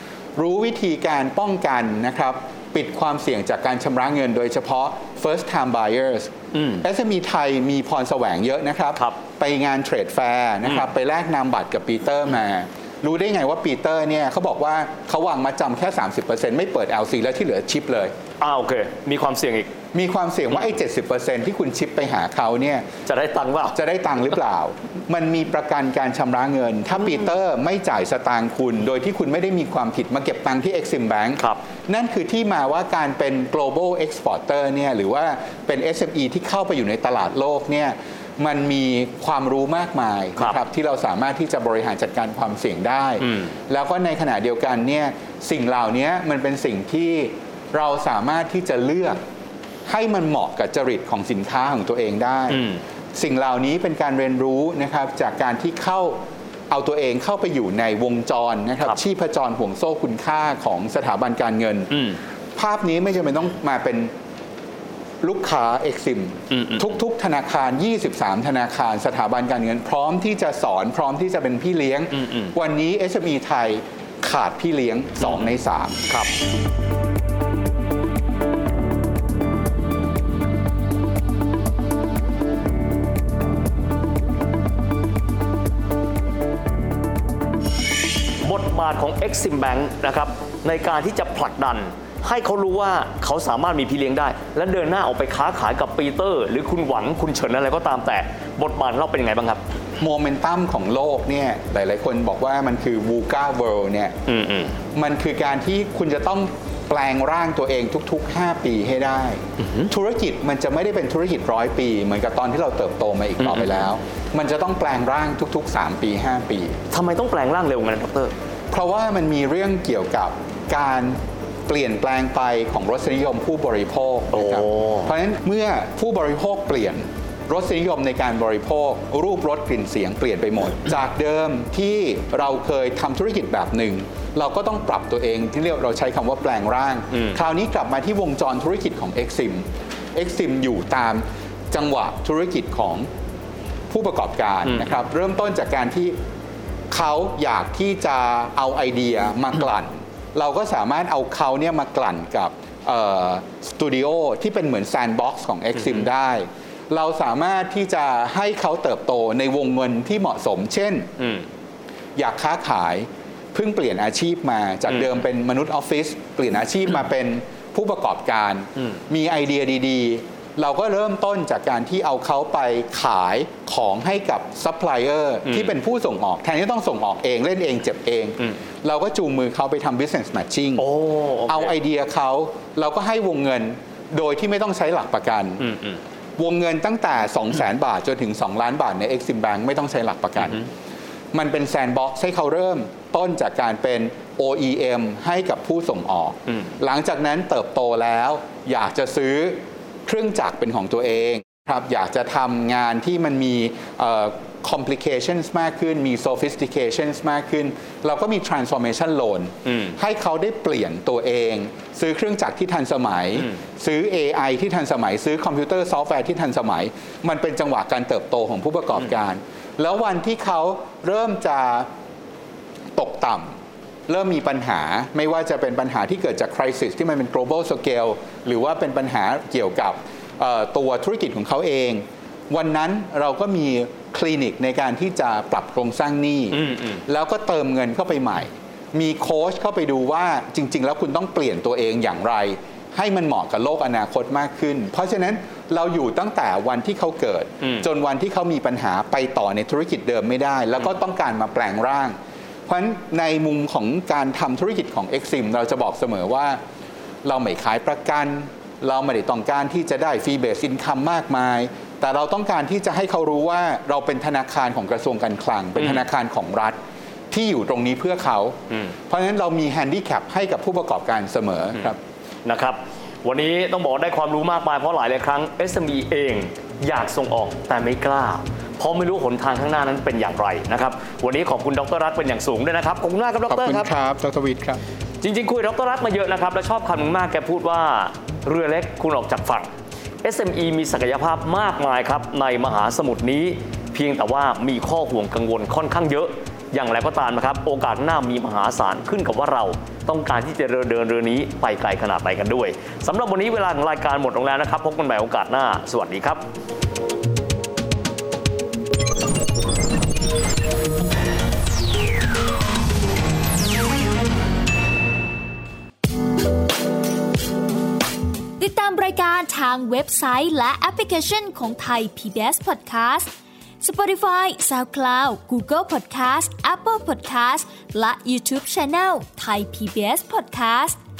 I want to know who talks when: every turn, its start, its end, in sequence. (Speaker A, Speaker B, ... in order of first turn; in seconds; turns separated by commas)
Speaker A: 0.3-18.1, Speaker B: 6.5-6.8, Speaker B: 18.4-19.7, Speaker A: 19.9-22.9, Speaker B: 23.0-23.8, Speaker A: 23.7-49.2, Speaker A: 49.9-62.0, Speaker B: 52.5-52.8, Speaker B: 61.9-62.2, Speaker A: 62.5-64.1, Speaker A: 65.2-76.1, Speaker B: 66.5-66.8, Speaker B: 72.2-72.5, Speaker B: 88.4-99.6, Speaker A: 100.0-104.1, Speaker B: 104.3-104.8, Speaker A: 104.9-116.8, Speaker B: 109.6-109.9, Speaker B: 113.4-113.8, Speaker B: 116.9-118.3, Speaker A: 118.7-143.1, Speaker B: 124.3-125.1, Speaker A: 143.9-146.2, Speaker B: 144.7-144.9, Speaker A: 146.9-161.1, Speaker B: 161.2-161.5, Speaker A: 162.2-180.9, Speaker B: 164.9-165.2, Speaker B: 175.4-175.7, Speaker B: 180.8-181.7, Speaker A: 181.5-185.7, Speaker B: 185.7-186.0, Speaker A: 186.4-190.6, Speaker A: 191.3-221.9, Speaker B: 209.7-209.9, Speaker A: 222.9-223.6, Speaker A: 224.1-256.6, Speaker B: 236.5-237.0, Speaker A: 257.2-266.8, Speaker B: 265.8-266.0, Speaker A: 267.3-268.6, Speaker A: 269.1-272.0, Speaker B: 272.4-283.9, Speaker A: 283.5-284.8, Speaker B: 285.2-289.7, Speaker B: 290.2-306.4, Speaker C: 318.6-331.0